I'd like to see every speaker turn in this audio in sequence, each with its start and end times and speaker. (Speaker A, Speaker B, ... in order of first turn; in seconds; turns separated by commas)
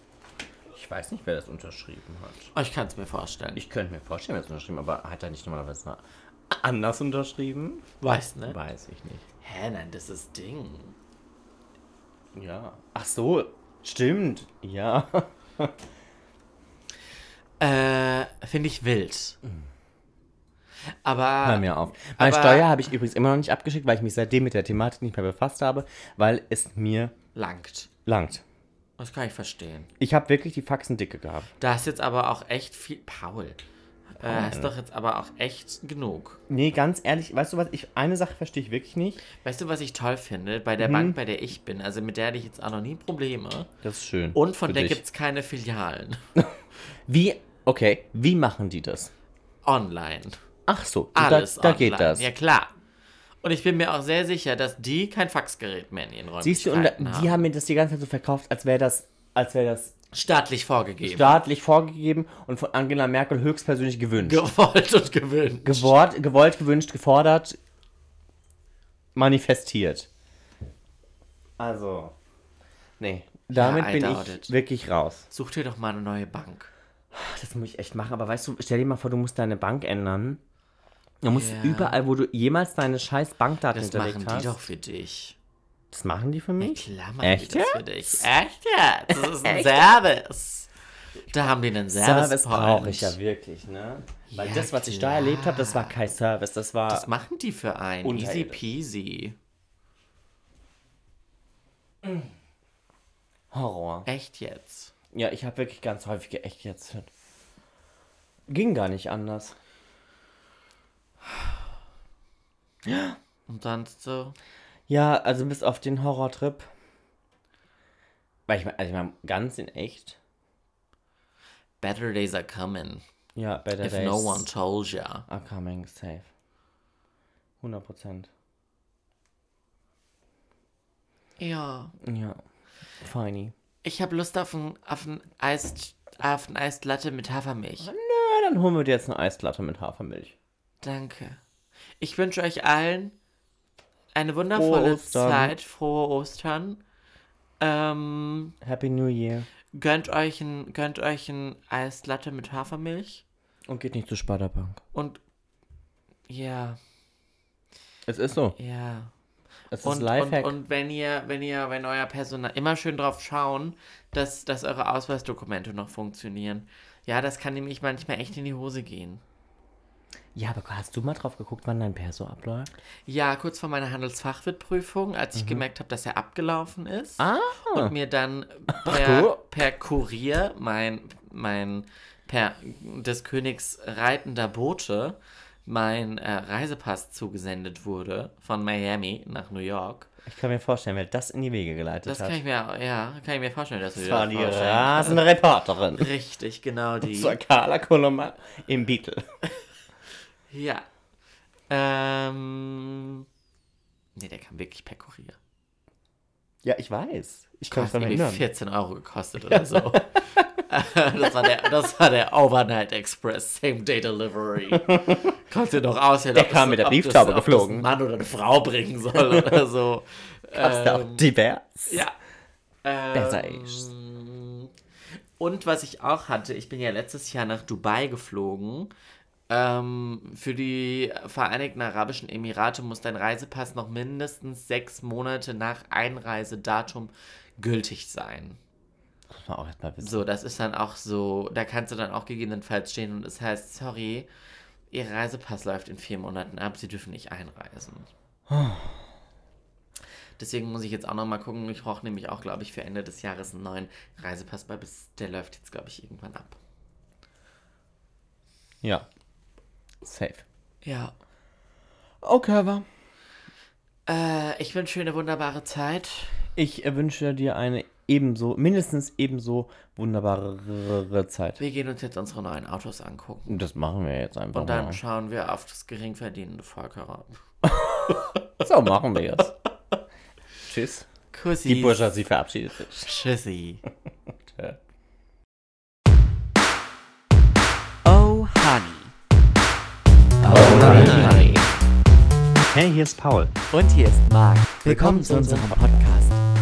Speaker A: 0.7-2.5, Speaker B: 2.5-3.6, Speaker A: 3.6-7.9, Speaker B: 8.0-8.6, Speaker A: 8.4-9.2, Speaker B: 9.4-11.0, Speaker A: 12.3-15.8, Speaker B: 17.6-19.4, Speaker B: 21.0-22.7, Speaker A: 21.4-27.1, Speaker B: 27.4-27.9, Speaker A: 28.1-28.4, Speaker B: 29.0-29.9, Speaker A: 30.0-31.5, Speaker B: 31.6-33.6, Speaker B: 34.2-36.4, Speaker A: 34.2-34.7, Speaker A: 36.5-39.2, Speaker B: 39.4-43.7, Speaker A: 40.8-41.2, Speaker A: 43.8-45.0, Speaker B: 44.4-46.2, Speaker A: 46.4-49.1, Speaker B: 49.6-50.4, Speaker A: 50.7-52.3, Speaker B: 51.1-52.7, Speaker B: 53.4-57.4, Speaker A: 56.4-59.9, Speaker B: 60.1-61.4, Speaker A: 61.0-64.4, Speaker B: 64.2-65.9, Speaker A: 65.7-67.6, Speaker A: 69.2-70.1, Speaker A: 71.6-72.2, Speaker A: 73.0-75.3, Speaker B: 73.5-74.5, Speaker B: 75.3-76.7, Speaker A: 77.1-80.4, Speaker A: 81.2-84.6, Speaker B: 81.3-82.0, Speaker B: 83.7-85.4, Speaker A: 85.9-88.2, Speaker B: 86.6-90.7, Speaker A: 89.1-89.9, Speaker B: 91.3-93.2, Speaker A: 91.9-97.1, Speaker B: 94.3-96.0, Speaker B: 96.9-99.4, Speaker A: 98.0-98.6, Speaker A: 103.5-104.1, Speaker B: 104.1-104.9, Speaker A: 105.1-107.1, Speaker A: 108.5-109.6, Speaker A: 112.8-113.2, Speaker B: 113.5-114.4, Speaker A: 114.9-116.7, Speaker A: 118.5-120.2, Speaker B: 121.8-123.0, Speaker A: 123.4-124.5, Speaker B: 123.8-125.3, Speaker A: 125.3-126.3, Speaker A: 127.6-128.3, Speaker B: 131.4-131.9, Speaker A: 132.0-132.4, Speaker A: 133.0-133.5, Speaker B: 133.8-137.9, Speaker A: 137.8-140.3, Speaker B: 140.8-141.4, Speaker B: 142.0-143.2, Speaker B: 144.1-146.8, Speaker A: 144.5-145.5, Speaker B: 147.6-148.6, Speaker A: 148.6-149.5, Speaker B: 149.7-153.2, Speaker A: 153.7-154.8, Speaker B: 154.9-155.2, Speaker B: 156.3-156.8, Speaker A: 158.1-158.6, Speaker B: 158.6-159.1, Speaker A: 159.7-160.5, Speaker B: 159.8-169.2, Speaker A: 170.3-172.7, Speaker B: 173.1-190.1, Speaker A: 175.4-175.7, Speaker A: 177.2-177.9, Speaker A: 178.7-179.4, Speaker A: 190.2-192.4, Speaker B: 192.1-195.2, Speaker A: 193.9-196.1, Speaker B: 196.0-197.4, Speaker A: 197.0-199.2, Speaker B: 200.5-200.9, Speaker B: 201.7-203.2, Speaker B: 204.2-205.4, Speaker A: 206.6-208.4, Speaker B: 207.7-221.3, Speaker A: 209.5-210.6, Speaker A: 214.7-215.3, Speaker A: 216.3-217.9, Speaker A: 219.2-219.6, Speaker A: 220.6-222.0, Speaker B: 221.9-222.1, Speaker B: 222.8-224.7, Speaker A: 223.1-223.9, Speaker B: 225.4-228.9, Speaker B: 229.5-238.6, Speaker A: 239.3-240.2, Speaker B: 240.0-244.3, Speaker B: 244.9-248.1, Speaker A: 248.5-249.0, Speaker B: 250.4-256.6, Speaker A: 260.0-260.4, Speaker B: 260.8-261.1, Speaker A: 262.2-262.9, Speaker B: 264.1-266.4, Speaker A: 266.6-271.6, Speaker B: 271.6-273.6, Speaker A: 273.5-275.0, Speaker B: 274.5-277.4, Speaker A: 277.6-279.5, Speaker B: 278.1-278.4, Speaker A: 280.7-281.1, Speaker B: 281.3-282.1, Speaker A: 281.7-283.1, Speaker B: 283.0-283.8, Speaker A: 284.4-284.8, Speaker B: 288.1-289.1, Speaker A: 290.4-291.7, Speaker B: 290.4-291.7, Speaker A: 292.7-293.6, Speaker B: 293.7-296.4, Speaker A: 294.9-296.0